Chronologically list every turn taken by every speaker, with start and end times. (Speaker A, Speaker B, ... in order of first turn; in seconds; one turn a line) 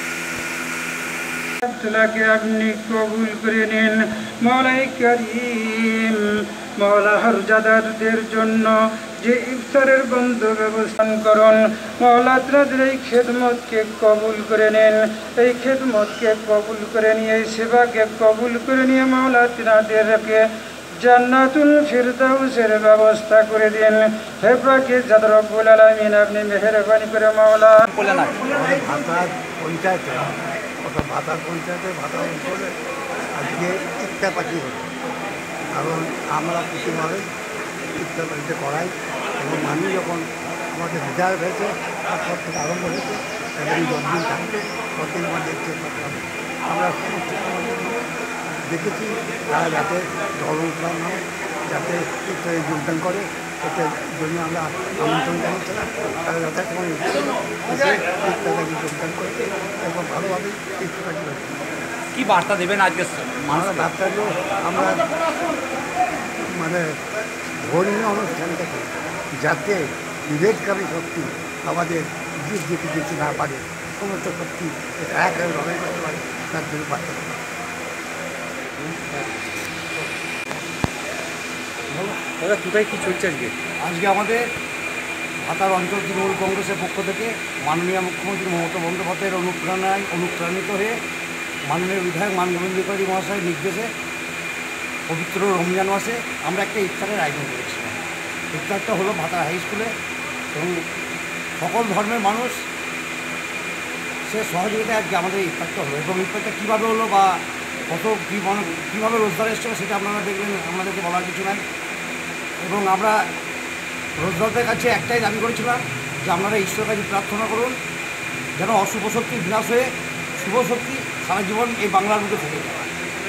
Speaker A: 1.6-20.5
Speaker A: 21.0-27.9
Speaker B: 27.9-28.4
Speaker C: 28.4-32.7
Speaker C: 33.4-34.9
Speaker C: 35.8-37.2
Speaker C: 38.0-44.5
Speaker C: 45.0-48.0
Speaker C: 48.7-61.6
Speaker B: 62.1-63.9
Speaker C: 63.5-65.1
Speaker C: 66.5-67.0
Speaker C: 67.6-77.4
Speaker B: 82.3-83.5
Speaker D: 83.8-84.4
Speaker D: 85.4-91.0
Speaker D: 91.7-93.9
Speaker D: 95.1-98.0
Speaker D: 98.5-99.9
Speaker D: 100.5-100.9
Speaker D: 101.6-102.7
Speaker D: 104.3-111.6
Speaker D: 112.6-113.2
Speaker D: 114.2-117.8
Speaker D: 118.6-122.9